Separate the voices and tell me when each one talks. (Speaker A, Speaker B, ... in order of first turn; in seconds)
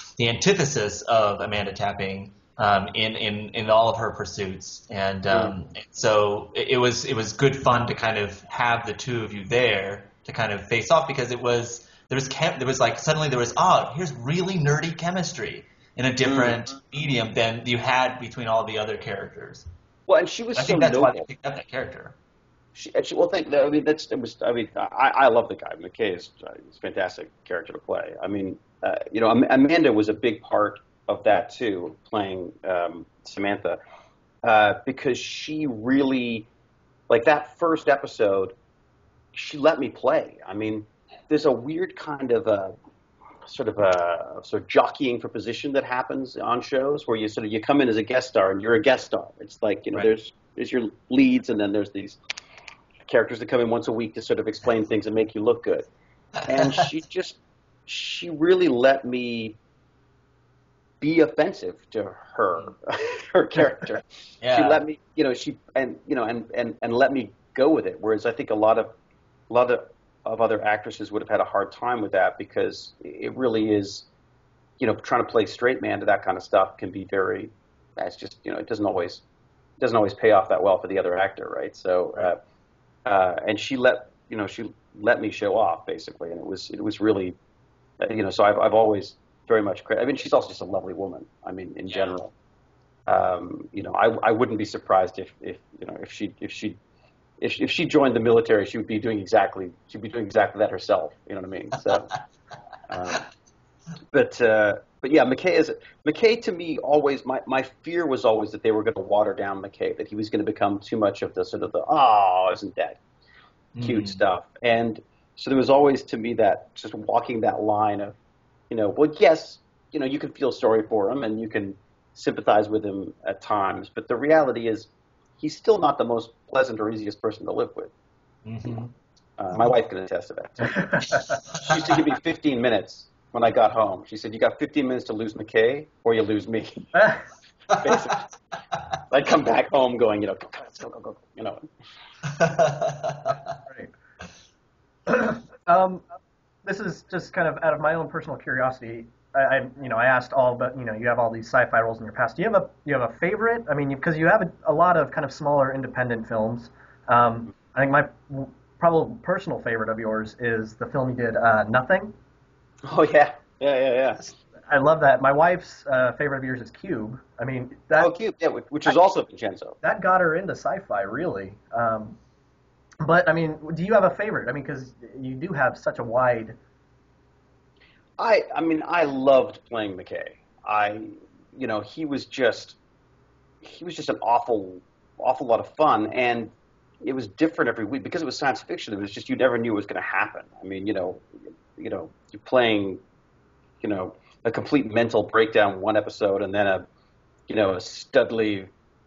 Speaker A: 0.2-19.7, 20.6-22.1, 64.4-64.8, 113.7-114.2, 128.4-128.8, 142.2-143.6
Speaker B: 16.2-16.6, 20.1-21.3, 22.7-33.8, 34.4-36.5, 37.1-38.5, 39.3-42.7, 43.5-52.2, 53.0-55.9, 56.4-59.6, 61.0-68.9, 69.5-74.1, 74.8-79.2, 79.8-82.4, 83.0-87.3, 88.0-92.3, 93.1-96.8, 97.4-102.1, 102.9-103.2, 104.1-113.0, 113.8-118.2, 118.7-127.9, 129.4-136.9, 137.7-138.3, 139.1-141.6, 162.9-164.3, 168.0-169.8, 178.2-182.8, 183.6-193.0, 193.8-196.8, 197.5-198.7
Speaker C: 130.7-131.2, 136.9-137.2, 145.1-146.0, 146.6-162.1, 164.7-168.1, 169.8-172.2, 173.0-176.6